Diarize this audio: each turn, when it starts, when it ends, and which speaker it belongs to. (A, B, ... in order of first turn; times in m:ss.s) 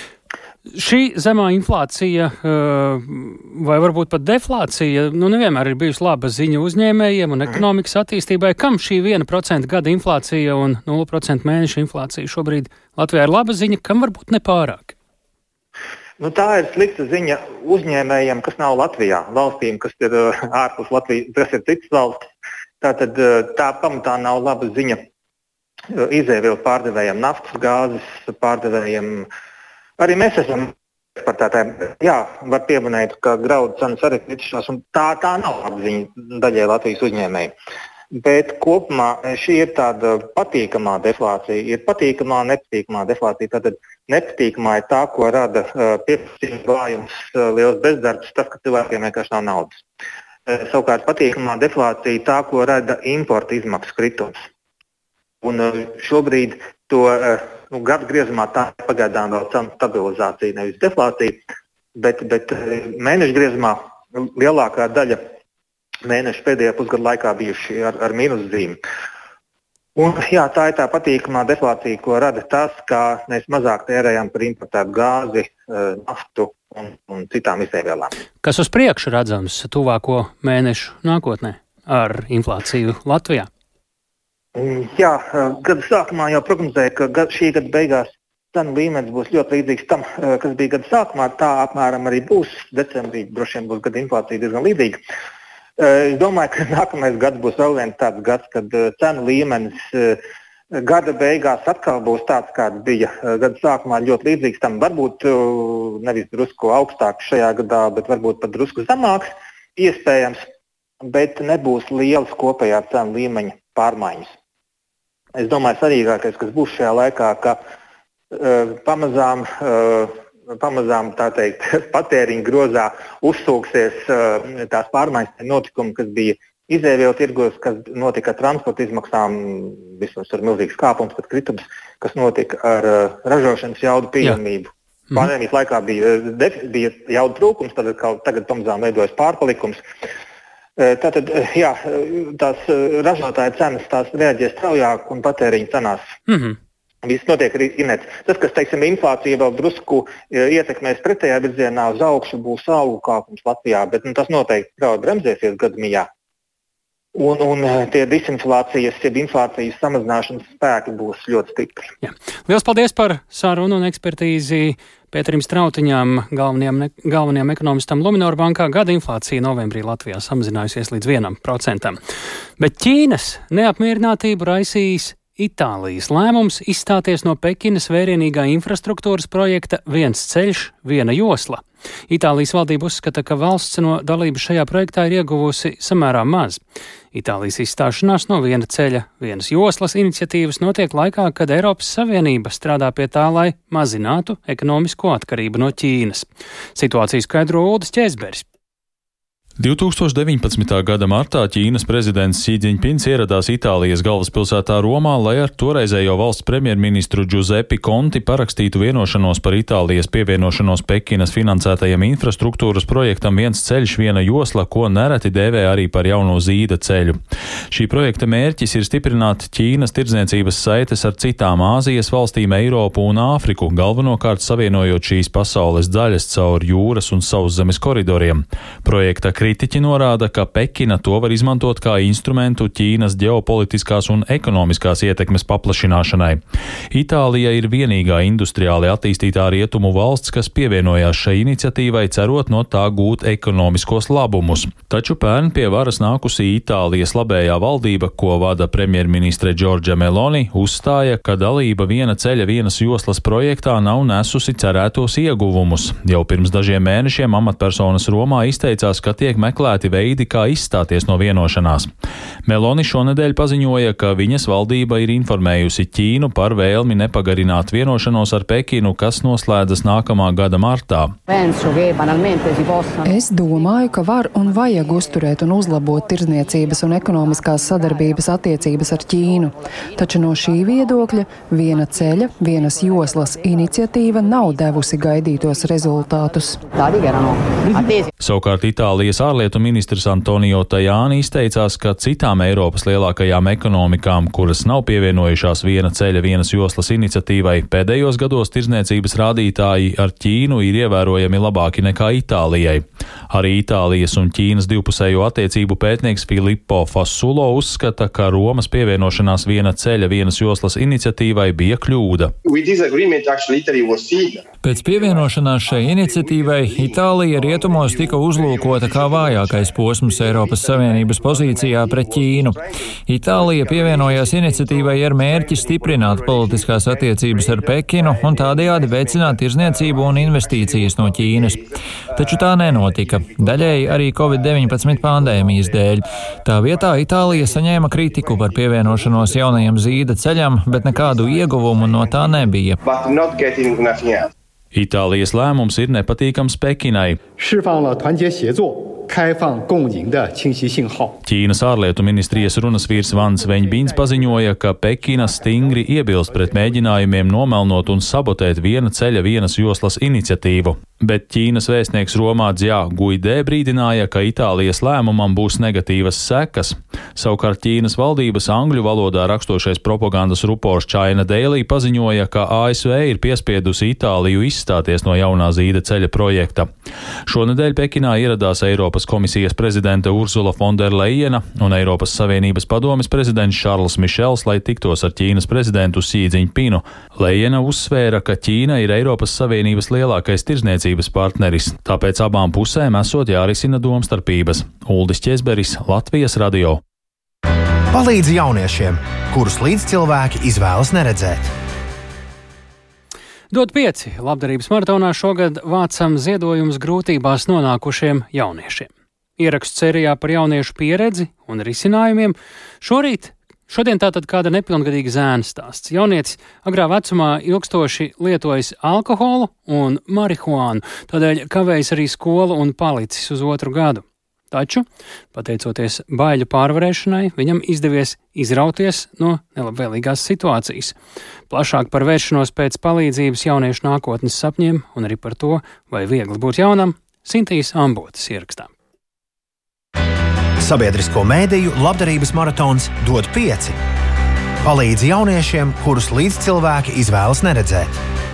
0:00.7-0:15.0 A
0:16.2-0:22.3 B
0:22.8-0:25.0 B
0:25.9-0:29.3 B
0:30.0-0:37.5 B
0:38.1-0:49.8 B
0:50.5-0:54.4 B
0:55.4-1:01.4 B
1:02.0-1:05.2 B
1:06.0-1:08.8 B
1:10.0-1:18.1 B
1:18.4-1:23.5 A
1:24.6-1:35.0 B
1:35.8-1:40.2 B
1:40.7-1:50.4 B
1:51.0-1:54.3 B
1:55.4-1:57.6 B
1:58.3-2:19.8 B
2:20.8-2:26.0 B
2:26.3-2:26.6 A
2:27.0-2:36.1 B
2:37.2-2:41.9 B
2:42.0-2:52.0 A
2:52.6-3:06.6 A
3:07.1-3:18.4 A
3:19.6-3:37.2 C
3:37.7-3:56.4 C
3:56.9-4:21.9 C
4:22.5-4:31.2 C
4:33.0-4:46.7 D
4:48.2-5:12.3 C
5:14.6-5:42.8 E
5:44.7-5:47.2 C
5:47.4-5:51.2 F
5:51.2-6:16.7 C
6:17.3-6:36.8 C
6:37.9-6:41.5 G
6:43.5-7:11.0 A
7:11.5-7:18.7 A
7:20.6-7:23.8 G
7:24.6-7:27.9 G